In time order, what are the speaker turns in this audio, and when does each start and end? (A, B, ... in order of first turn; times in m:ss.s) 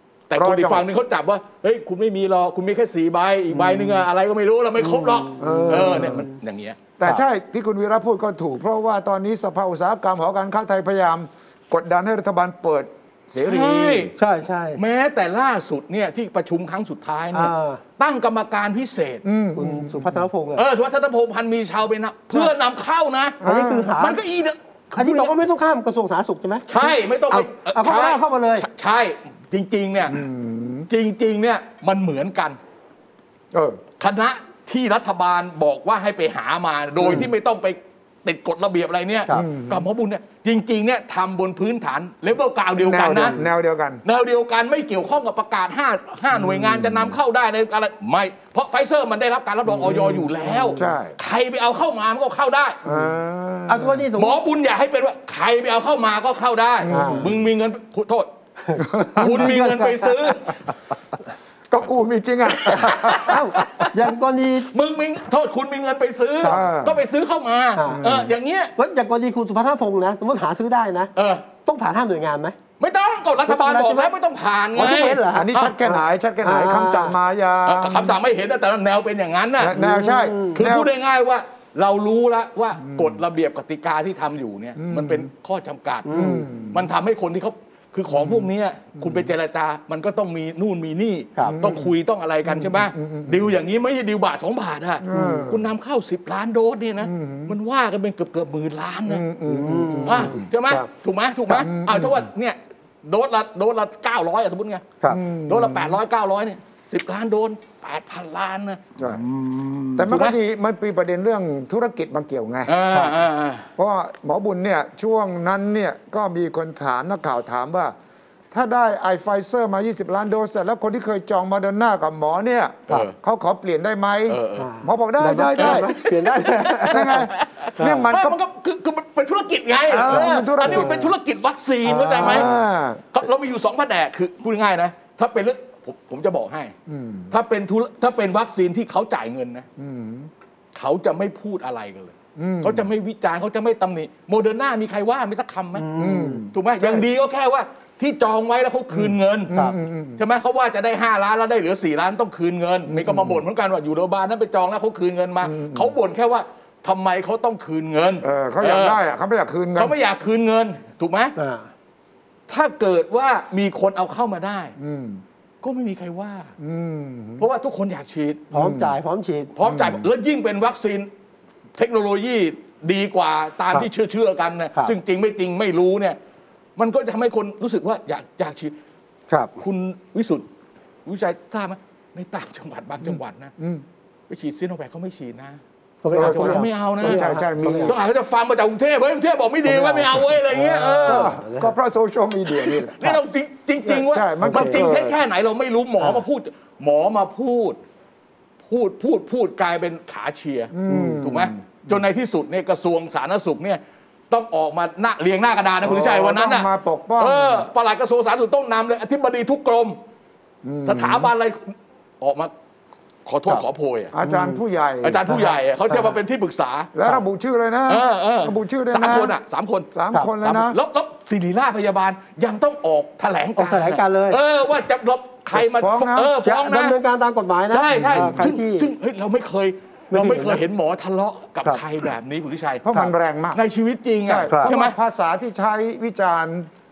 0:00.3-0:06.8 A
0:00.3-0:00.8 B
0:03.6-0:03.9 C
0:04.8-0:06.3 C
0:05.4-0:06.2 B
0:07.0-0:14.1 B
0:13.4-0:14.1 A
0:14.2-0:14.8 C
0:14.8-0:19.2 A
0:17.3-0:17.8 C
0:19.2-0:20.2 B
0:19.6-0:20.6 C
0:20.6-0:23.4 A
0:23.4-0:23.9 B
0:23.4-0:24.2 C
0:24.0-0:25.3 A
0:24.9-0:28.7 C
0:26.7-0:30.2 A
0:30.1-0:30.9 B
0:30.9-0:32.6 A
0:33.5-0:33.8 B
0:34.0-0:43.4 A
0:39.3-0:39.9 B
0:42.8-0:44.0 B
0:44.0-0:52.8 A
0:46.3-0:47.1 B
0:49.9-0:50.9 C
0:50.8-0:51.2 B
0:52.8-0:54.0 B
0:53.7-0:54.4 C
0:54.1-0:58.3 A
0:56.8-0:57.4 B
0:56.9-0:57.3 C
0:58.7-1:00.3 C
0:58.8-0:59.5 B
0:59.2-1:00.6 A
1:01.7-1:03.8 B
1:02.6-1:03.4 A
1:03.0-1:04.7 C
1:04.7-1:08.7 A
1:06.4-1:07.0 B
1:07.8-1:08.0 C
1:07.9-1:08.3 B
1:08.8-1:11.1 C
1:11.2-1:11.5 A
1:11.6-1:12.6 C
1:12.8-1:15.8 A
1:13.4-1:14.1 C
1:14.8-1:17.2 C
1:15.3-1:18.2 B
1:17.6-1:19.8 A
1:19.6-1:20.9 B
1:19.7-1:20.6 C
1:20.5-1:39.2 A
1:22.8-1:23.2 B
1:24.8-1:25.3 B
1:26.0-1:26.5 C
1:26.1-1:26.9 B
1:28.1-1:29.3 B
1:31.4-1:31.9 B
1:32.4-1:33.5 B
1:35.0-1:35.7 B
1:35.1-1:35.5 C
1:37.0-1:37.6 B
1:39.1-1:40.4 B
1:39.5-1:40.9 C
1:40.0-1:44.9 A
1:41.6-1:42.3 B
1:45.1-1:46.0 B
1:45.5-1:48.8 A
1:49.0-1:49.2 B
1:49.2-1:50.1 C
1:50.0-1:52.8 B
1:50.1-1:50.4 A
1:52.7-1:53.7 A
1:53.8-1:57.9 B
1:58.5-2:05.9 B
2:02.9-2:03.1 A
2:04.3-2:04.7 A
2:04.6-2:08.1 C
2:05.6-2:12.5 A
2:06.9-2:08.4 B
2:09.9-2:11.0 B
2:10.6-2:11.1 C
2:11.8-2:12.6 C
2:12.2-2:13.0 B
2:13.1-2:16.7 A
2:16.9-2:17.3 B
2:17.3-2:19.6 A
2:19.8-2:20.3 B
2:20.7-2:25.9 A
2:22.4-2:22.9 B
2:25.8-2:26.4 C
2:25.9-2:27.0 B
2:26.5-2:29.5 A
2:28.9-2:30.2 B
2:29.5-2:29.8 C
2:30.2-2:39.0 A
2:32.9-2:33.4 B
2:35.4-2:35.9 B
2:38.2-2:39.9 B
2:39.8-2:41.3 A
2:41.4-2:41.7 C
2:42.5-2:44.7 A
2:44.8-2:45.2 B
2:45.6-2:46.5 A
2:46.6-2:47.5 B
2:47.4-2:48.5 A
2:48.5-2:49.5 C
2:48.5-2:49.0 B
2:49.6-2:51.1 A
2:49.6-2:50.1 B
2:51.8-2:56.2 A
2:56.8-2:58.7 A
2:59.3-2:59.6 C
2:59.6-3:00.4 A
3:01.0-3:03.5 A
3:03.6-3:03.8 B
3:04.3-3:05.6 A
3:06.0-3:07.9 C
3:06.1-3:08.0 B
3:06.1-3:07.3 A
3:07.8-3:11.4 A
3:09.6-3:11.7 C
3:11.0-3:13.2 B
3:12.6-3:17.8 A
3:13.9-3:15.2 B
3:14.4-3:14.9 C
3:18.7-3:30.0 A
3:20.7-3:22.0 B
3:20.9-3:21.2 C
3:25.8-3:27.7 B
3:30.6-3:31.3 B
3:30.8-3:32.5 A
3:33.2-3:34.1 A
3:34.1-3:35.2 B
3:34.2-3:34.6 C
3:35.0-3:36.9 A
3:35.3-3:36.2 C
3:36.9-3:39.3 B
3:37.9-3:39.9 A
3:39.9-3:40.8 B
3:40.4-3:47.0 A
3:43.6-3:44.4 C
3:45.5-3:46.3 B
3:46.4-3:48.9 C
3:47.7-3:52.8 A
3:48.0-3:48.4 B
3:50.1-3:50.6 C
3:52.8-3:53.6 B
3:53.5-3:55.0 A
3:54.2-3:56.7 B